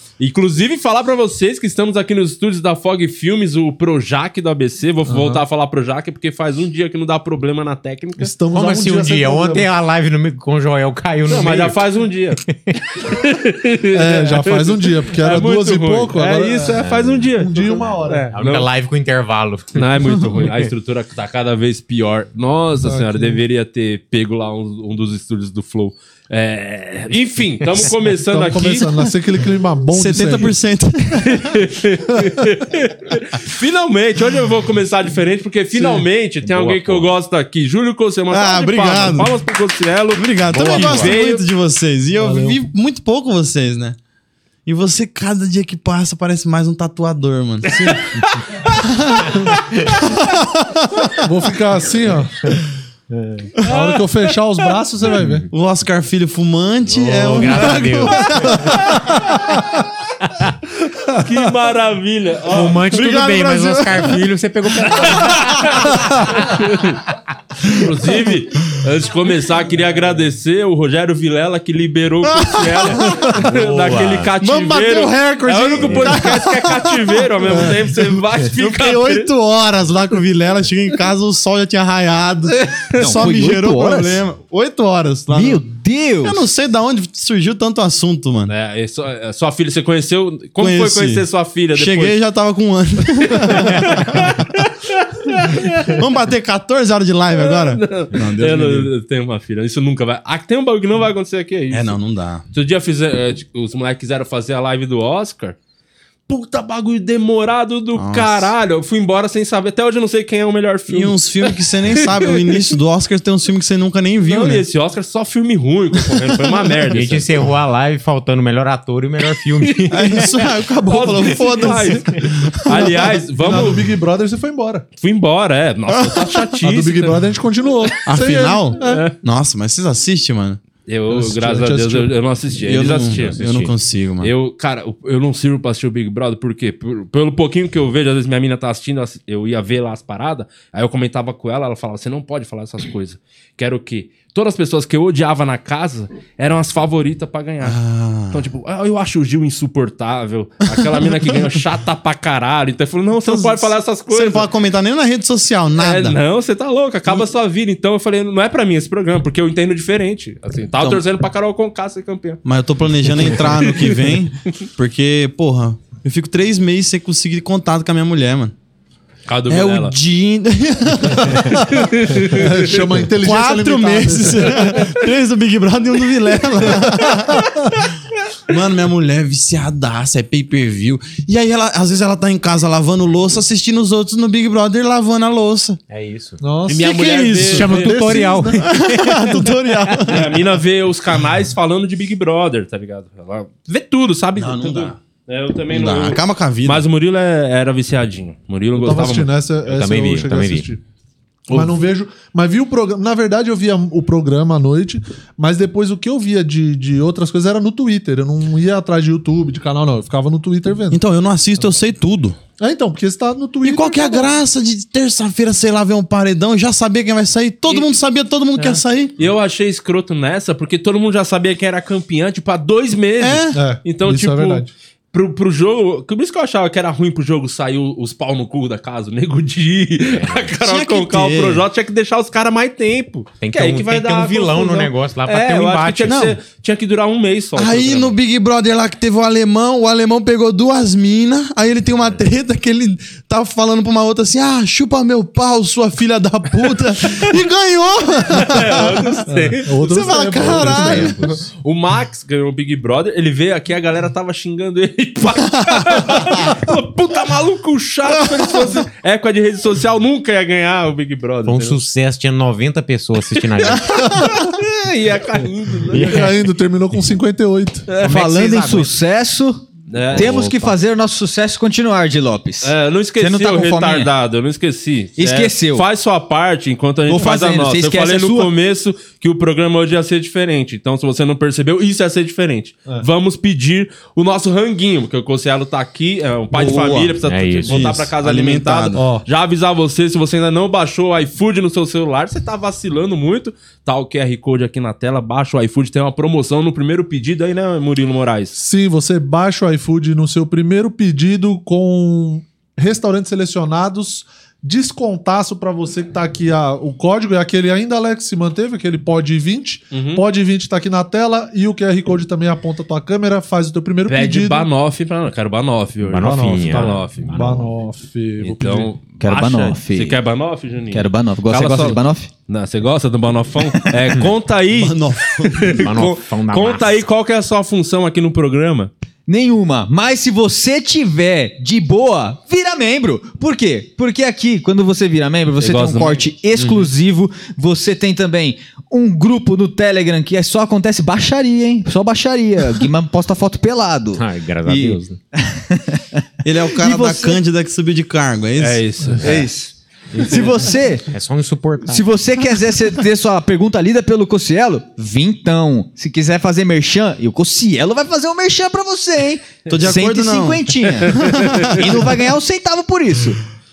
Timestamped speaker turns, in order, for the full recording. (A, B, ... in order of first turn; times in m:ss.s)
0:00.2-0:08.3 A
0:05.1-0:05.4 B
0:08.2-0:09.7 B
0:08.5-0:11.8 C
0:11.3-0:12.4 A
0:12.5-0:12.7 C
0:12.9-0:18.7 A
0:13.9-0:18.4 B
0:16.7-0:20.7 C
0:19.7-0:28.9 A
0:22.8-0:23.4 B
0:28.0-0:30.5 B
0:29.9-0:31.6 D
0:31.2-0:41.5 A
0:36.4-0:37.1 C
0:38.3-0:39.4 D
0:40.2-0:44.0 D
0:40.5-0:41.2 C
0:42.2-0:42.6 B
0:44.7-0:48.0 D
0:47.7-0:49.6 A
0:48.7-0:49.4 D
0:51.2-0:52.6 B
0:53.1-0:53.5 C
0:53.6-0:53.9 D
0:53.7-0:55.5 B
0:53.7-0:54.0 A
0:55.1-0:55.5 C
0:55.5-0:58.6 D
0:56.9-0:59.2 C
0:57.7-0:59.8 B
1:01.2-1:03.0 A
1:02.5-1:06.4 C
1:02.8-1:04.2 D
1:04.9-1:07.0 A
1:07.7-1:19.3 A
1:12.3-1:13.4 D
1:13.2-1:14.3 C
1:14.4-1:25.6 D
1:15.8-1:16.2 C
1:22.5-1:23.1 A
1:23.0-1:24.2 E
1:25.3-1:26.4 E
1:26.2-1:28.5 D
1:28.5-1:32.2 A
1:30.6-1:34.6 D
1:33.2-1:36.0 A
1:35.8-1:38.9 D
1:37.4-1:42.0 A
1:41.7-1:42.4 D
1:42.5-1:45.6 A
1:46.3-1:52.7 A
1:48.0-1:48.5 D
1:50.9-1:54.6 D
1:54.3-1:57.3 A
1:56.9-2:00.4 C
1:59.6-2:00.3 A
1:59.9-2:03.0 D
2:00.9-2:03.9 A
2:02.7-2:04.9 B
2:05.0-2:07.2 A
2:05.9-2:06.4 D
2:06.6-2:08.7 B
2:08.0-2:10.6 D
2:08.8-2:09.1 A
2:10.9-2:13.5 A
2:11.1-2:12.1 B
2:12.6-2:14.3 D
2:13.1-2:13.7 C
2:14.2-2:27.8 A
2:27.6-2:28.5 D
2:28.3-2:34.4 A
2:30.7-2:31.2 D
2:33.2-2:36.2 D
2:35.8-2:42.4 A
2:40.8-2:41.0 D
2:42.4-2:48.5 D
2:43.1-2:44.7 A
2:49.3-2:50.0 A
2:49.5-2:51.8 D
2:51.2-2:54.8 B
2:51.7-2:52.8 A
2:53.0-2:57.9 D
2:56.7-2:57.6 B
2:58.5-3:05.8 D
3:05.9-3:06.4 C
3:06.4-3:06.9 B
3:06.7-3:07.9 A
3:06.7-3:07.9 D
3:07.5-3:08.6 B
3:07.5-3:10.1 C
3:08.6-3:10.4 D
3:10.1-3:19.3 A
3:14.4-3:15.0 D
3:15.7-3:16.8 D
3:18.8-3:20.8 B
3:19.7-3:20.7 C
3:21.5-3:21.8 A
3:21.5-3:31.0 B
3:30.9-3:32.4 D
3:32.6-3:34.3 B
3:33.6-3:39.2 D
3:38.6-3:58.2 A
3:43.2-3:43.6 D
3:43.5-3:44.7 B
3:50.1-3:50.5 C
3:50.6-3:51.6 D
3:53.4-3:56.2 C
3:56.0-3:56.4 D
3:57.6-4:11.2 D
4:08.3-4:10.0 A
4:09.3-4:11.3 B
4:10.4-4:11.5 C
4:11.6-4:21.8 A
4:15.5-4:16.3 D
4:21.5-4:24.2 C
4:23.4-4:26.3 A
4:25.9-4:26.3 C
4:25.9-4:27.9 B
4:27.9-4:28.2 A
4:28.0-4:28.9 C
4:28.0-4:34.1 E
4:29.9-4:30.5 A
4:30.1-4:30.8 C
4:32.6-4:58.6 A
4:35.2-4:35.8 E
4:37.1-4:38.5 E
4:46.5-4:49.0 D
4:47.2-4:47.8 C
4:49.0-4:49.3 B
4:58.6-5:14.7 B
5:09.9-5:10.2 A
5:14.1-5:17.4 A
5:16.0-5:17.8 C
5:16.2-5:18.9 B
5:18.4-5:28.9 A
5:19.2-5:20.2 E
5:20.9-5:22.3 E
5:24.8-5:25.9 D
5:25.6-5:27.0 C
5:29.3-5:44.2 E
5:35.6-5:36.9 A
5:44.2-5:45.2 C
5:44.7-5:45.0 D
5:45.3-5:47.4 E
5:46.4-5:48.8 D
5:48.6-5:49.4 A
5:49.2-5:51.1 E
5:50.1-5:50.5 A
5:51.0-5:52.1 C
5:51.9-6:03.4 E
5:59.7-6:02.1 D
6:01.0-6:01.8 A